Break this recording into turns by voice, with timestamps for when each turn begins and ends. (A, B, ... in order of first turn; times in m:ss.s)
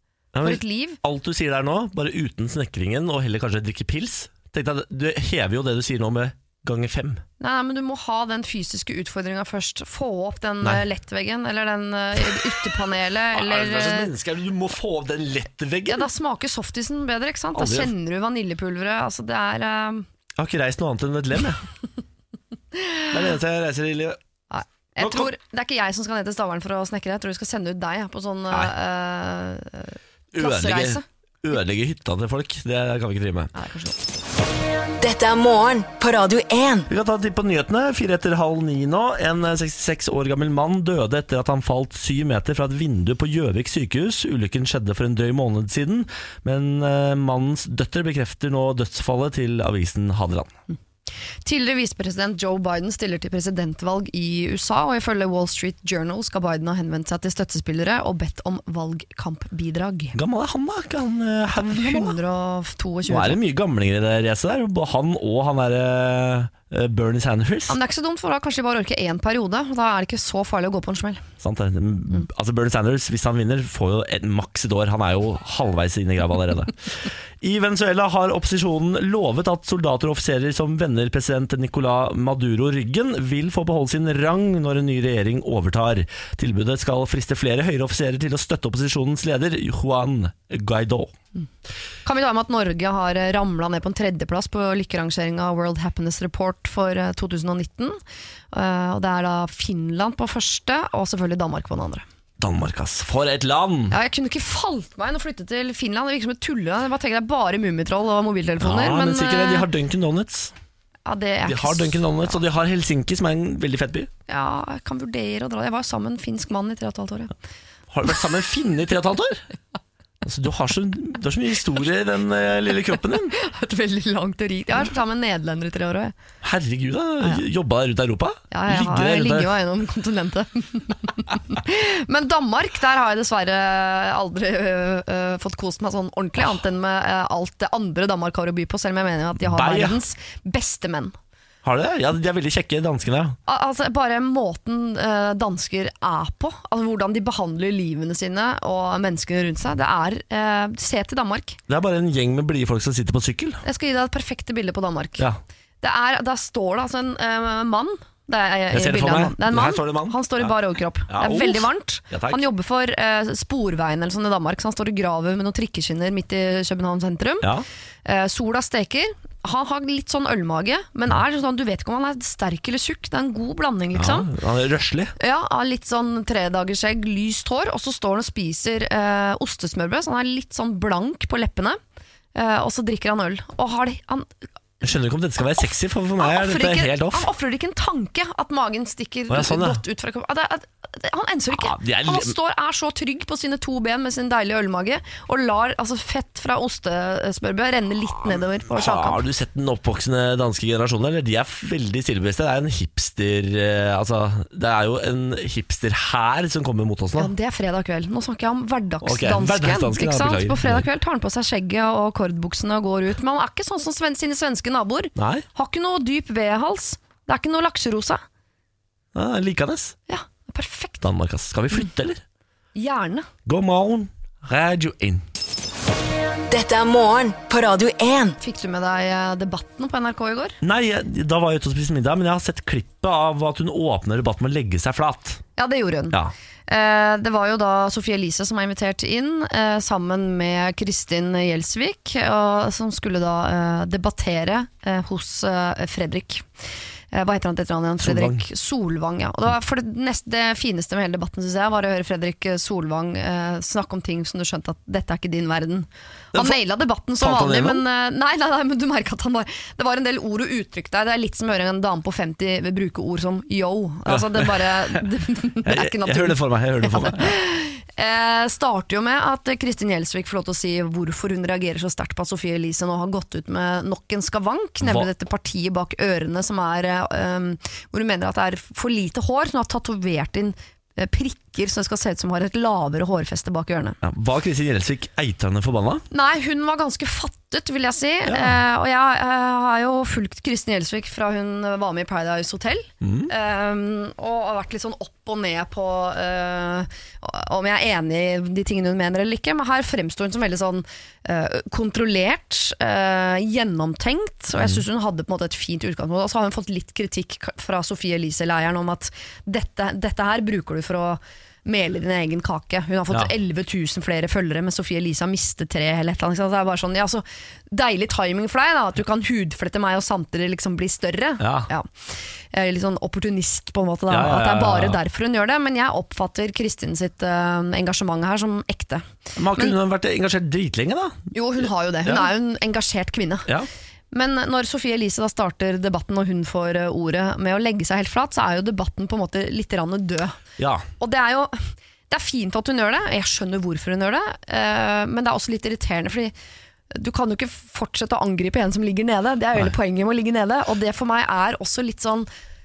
0:00.3-0:07.2 A
0:00.4-0:01.0 B
0:07.4-0:14.1 B
0:13.3-0:16.1 A
0:15.9-0:20.1 B
0:17.5-0:17.9 A
0:20.4-0:21.6 A
0:22.7-0:23.0 B
0:23.1-0:24.2 A
0:24.5-0:31.0 B
0:25.0-0:25.3 A
0:30.3-0:33.5 A
0:33.5-0:34.0 B
0:35.0-0:36.9 C
0:36.9-0:50.5 A
0:51.4-1:00.2 B
1:00.1-1:02.1 A
1:01.5-1:03.4 B
1:03.1-1:07.8 A
1:07.7-1:11.2 B
1:11.4-1:31.1 A
1:32.0-1:38.0 B
1:38.5-1:42.0 B
1:42.4-1:44.0 A
1:43.9-1:49.7 B
1:48.6-1:50.5 A
1:51.0-1:52.3 B
1:51.4-1:54.1 A
1:54.3-1:57.3 B
1:57.9-1:59.4 A
2:00.2-2:03.3 A
2:03.3-2:06.1 B
2:06.4-2:09.5 A
2:08.5-2:21.1 B
2:19.4-2:20.0 A
2:21.6-2:23.4 A
2:23.5-2:31.6 B
2:31.7-2:33.6 A
2:33.6-2:35.2 B
2:35.8-2:47.5 B
2:38.7-2:40.5 A
2:41.1-2:42.4 A
2:48.0-2:54.3 B
2:53.9-2:55.1 A
2:55.2-3:01.8 B
3:02.3-3:04.3 B
3:04.8-3:07.3 A
3:06.2-3:19.2 B
3:09.3-3:09.8 A
3:11.5-3:12.3 A
3:18.6-3:27.3 A
3:27.2-3:38.2 B
3:29.0-3:30.9 A
3:35.2-3:35.4 A
3:39.1-3:39.9 A
3:40.1-3:41.0 B
3:41.0-3:42.2 A
3:42.7-3:43.3 B
3:43.4-3:45.2 A
3:46.5-3:48.4 C
3:48.4-3:50.6 B
3:50.6-3:55.4 A
3:55.6-4:06.5 B
4:07.1-4:44.0 B
4:08.0-4:08.4 A
4:17.2-4:17.8 A
4:24.1-4:24.5 A
4:25.6-4:27.4 A
4:34.8-4:35.1 A
4:44.0-4:46.0 A
4:46.1-5:29.0 B
4:48.2-4:48.6 A
4:53.0-4:53.3 A
5:21.4-5:21.7 A
5:24.1-5:25.0 A
5:29.4-5:31.3 A
5:31.3-5:33.5 B
5:34.1-5:40.4 B
5:40.6-5:40.8 A
5:41.0-5:46.3 B
5:46.9-5:52.3 B